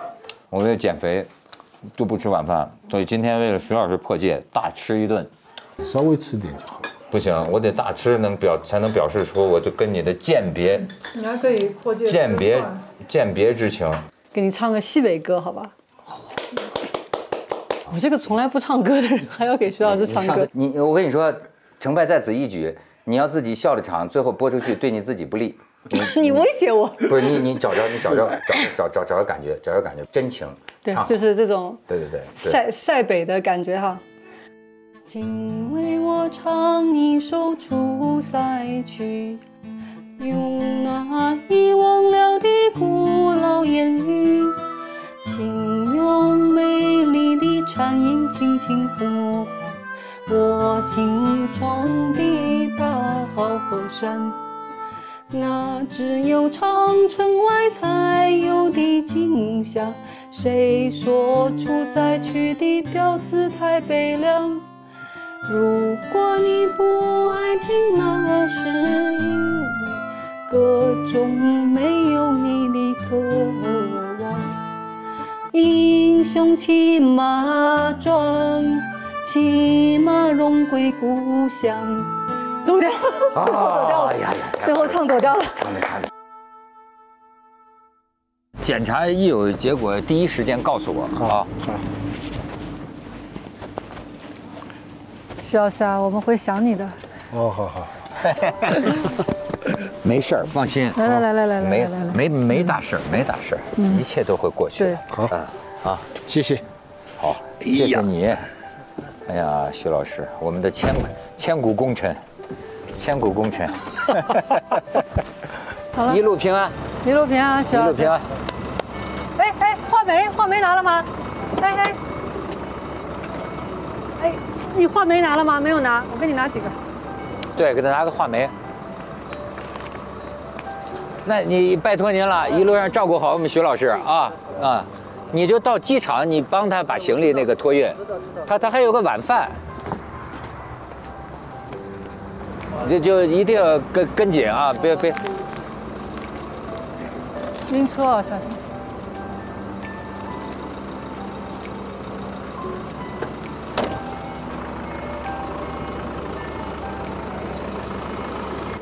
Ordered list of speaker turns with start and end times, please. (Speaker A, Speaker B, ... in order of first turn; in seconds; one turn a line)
Speaker A: 0.5-1.3
Speaker A: 2.0-5.3
Speaker B: 5.8-6.8
Speaker A: 7.1-10.9
Speaker C: 11.1-12.7
Speaker A: 12.0-14.0
Speaker C: 14.3-15.7
Speaker C: 17.9-20.5
Speaker A: 19.9-26.4
Speaker C: 25.9-27.5
Speaker A: 27.0-31.2
Speaker C: 30.8-31.8
Speaker A: 31.9-32.6
Speaker C: 32.4-34.0
Speaker C: 35.0-39.4
Speaker C: 40.2-44.6
Speaker C: 45.2-54.4
Speaker C: 55.3-64.7
Speaker C: 65.5-74.6
Speaker C: 75.5-85.7
Speaker A: 83.3-86.1
Speaker A: 88.6-91.5
Speaker C: 95.5-97.0
Speaker B: 97.3-98.0
Speaker A: 98.2-99.0
Speaker A: 99.9-106.1
Speaker C: 101.0-102.2
Speaker B: 106.3-106.6
Speaker A: 107.2-108.5
Speaker A: 109.3-112.2
Speaker A: 112.9-114.8
Speaker C: 116.0-116.2
Speaker A: 116.0-116.8
Speaker C: 117.0-118.1
Speaker A: 117.7-118.3
Speaker C: 119.4-122.0
Speaker C: 124.2-126.8
Speaker A: 127.5-128.5
Speaker A: 131.2-139.6
Speaker A: 142.7-145.2
Speaker C: 147.7-148.6